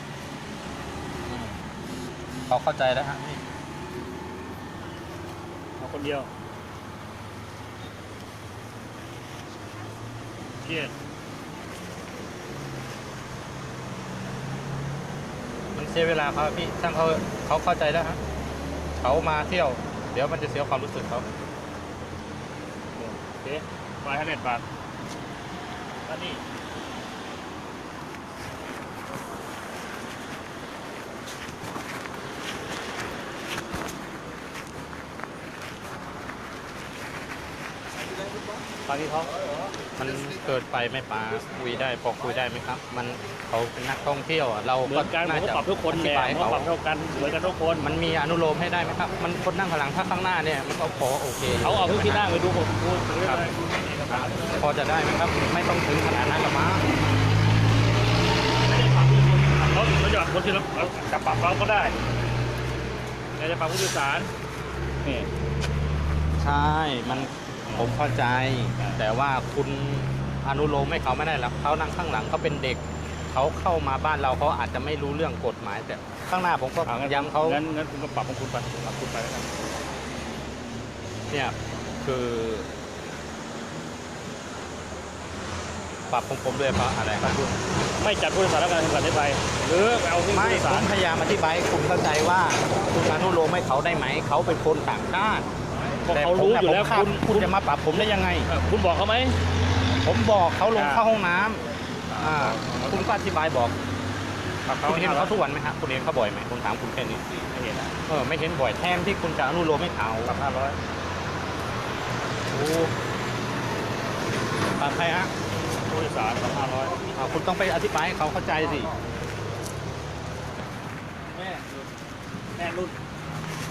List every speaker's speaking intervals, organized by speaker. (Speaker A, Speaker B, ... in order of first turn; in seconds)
Speaker A: 2.5-3.4, 15.7-18.2, 19.0-21.2, 40.0-46.7, 47.8-52.3, 54.5-56.8, 66.4-77.6, 81.3-82.7, 86.1-87.4, 90.3-95.5, 96.1-98.5, 100.0-101.6, 102.2-103.7, 104.8-107.2, 108.1-110.4, 112.5-112.9, 114.8-115.3, 117.1-118.9
Speaker B: 5.8-6.3, 10.6-10.9, 23.0-24.6, 26.1-26.4, 38.9-39.3, 44.8-47.9, 51.6-54.6, 58.8-62.0, 63.4-64.3, 67.1-67.9, 76.8-79.5, 87.2-90.9, 96.0-97.5, 98.5-99.4, 100.8-101.0, 102.1-103.1, 104.6-105.4, 107.4-108.0, 110.2-110.8, 115.9-117.0, 121.3-121.8, 122.5-123.0